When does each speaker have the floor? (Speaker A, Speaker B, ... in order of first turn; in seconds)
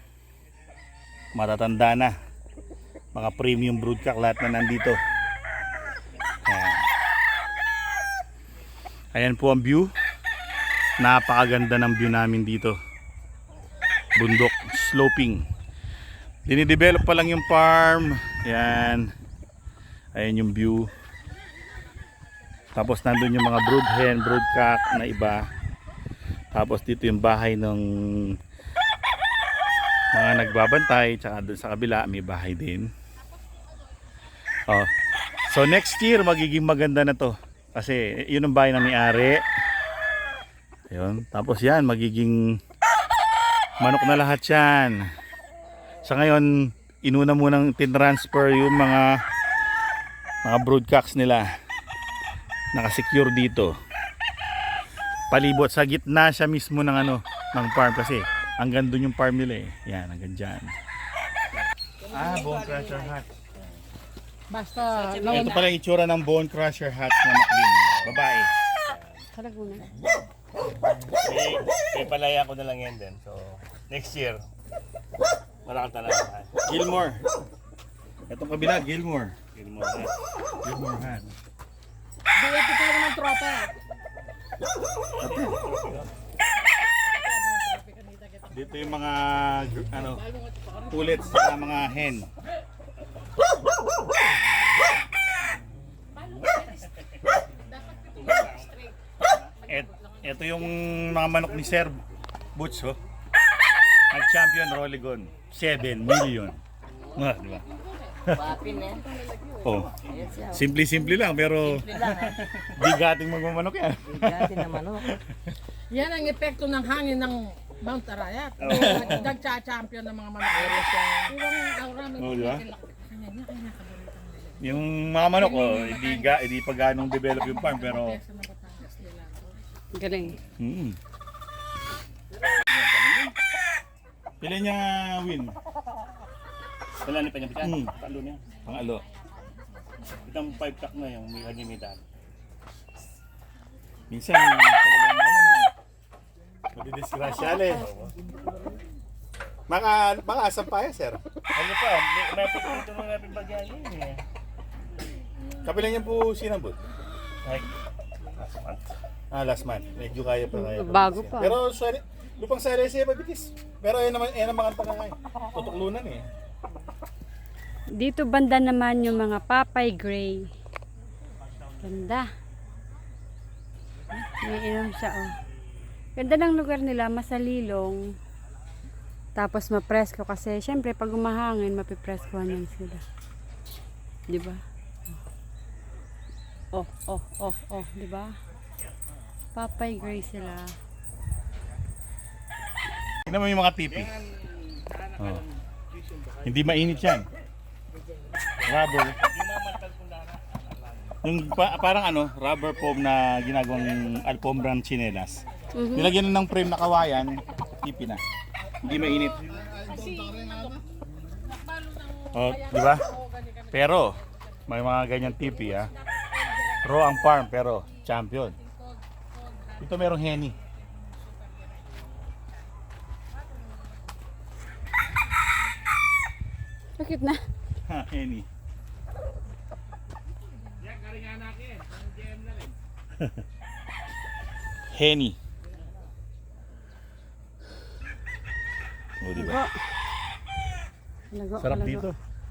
Speaker A: 1.3-2.1, 3.1-5.0, 6.5-6.8, 9.1-9.9, 11.0-12.8, 14.2-15.5, 16.5-19.1, 20.1-20.9, 22.7-25.4, 26.5-28.4, 30.1-32.9, 35.5-39.4, 40.9-42.5, 43.8-45.0, 46.0-49.2, 50.4-51.5, 52.7-53.7, 55.3-60.7, 62.1-63.3, 65.2-68.5, 76.6-77.2, 78.3-79.3, 80.6-81.3, 85.2-85.6, 88.5-90.2, 90.9-92.3, 99.7-102.0, 102.5-103.0, 104.1-106.6, 107.1-107.6, 108.2-108.6, 109.6-112.2, 112.8-115.5, 118.7-119.2, 122.2-122.6, 124.6-128.2, 130.6-131.0, 134.4-135.5, 137.6-137.9, 138.6-139.0, 144.1-145.7, 146.7-147.9, 149.7-151.2, 155.6-156.8, 159.3-166.2, 193.2-194.2, 195.2-195.4, 196.4-197.2, 198.6-199.2, 201.2-205.4, 205.9-208.2, 208.8-209.4, 212.3-213.1, 213.7-214.2, 214.7-215.9, 216.8-218.6, 219.8-220.6, 227.9-228.5, 234.9-235.4, 239.2-239.6, 241.6-242.2
Speaker B: 64.5-65.6, 82.4-83.7, 87.5-88.4, 115.9-124.5, 125.5-125.9, 128.0-129.4, 209.8-210.8, 211.7-212.3, 213.0-213.5
Speaker C: 67.9-68.2, 68.8-69.2, 71.2-74.4, 75.6-76.5, 79.5-80.2, 85.2-86.1, 97.6-99.6, 111.9-112.6, 118.6-119.3, 132.6-133.3, 137.0-138.4, 140.2-142.0, 147.5-148.1, 151.5-154.2, 157.4-157.7, 158.3-158.9, 193.9-197.2, 198.6-201.2, 231.2-232.0
Speaker D: 69.3-69.8, 129.9-130.4, 160.5-161.6, 168.0-170.5, 171.8-172.3, 174.2-175.3, 176.2-178.1, 179.3-183.0, 184.3-184.6, 186.7-188.3, 189.5-190.7, 205.8-206.1, 227.0-227.4, 239.3-239.7, 241.3-242.1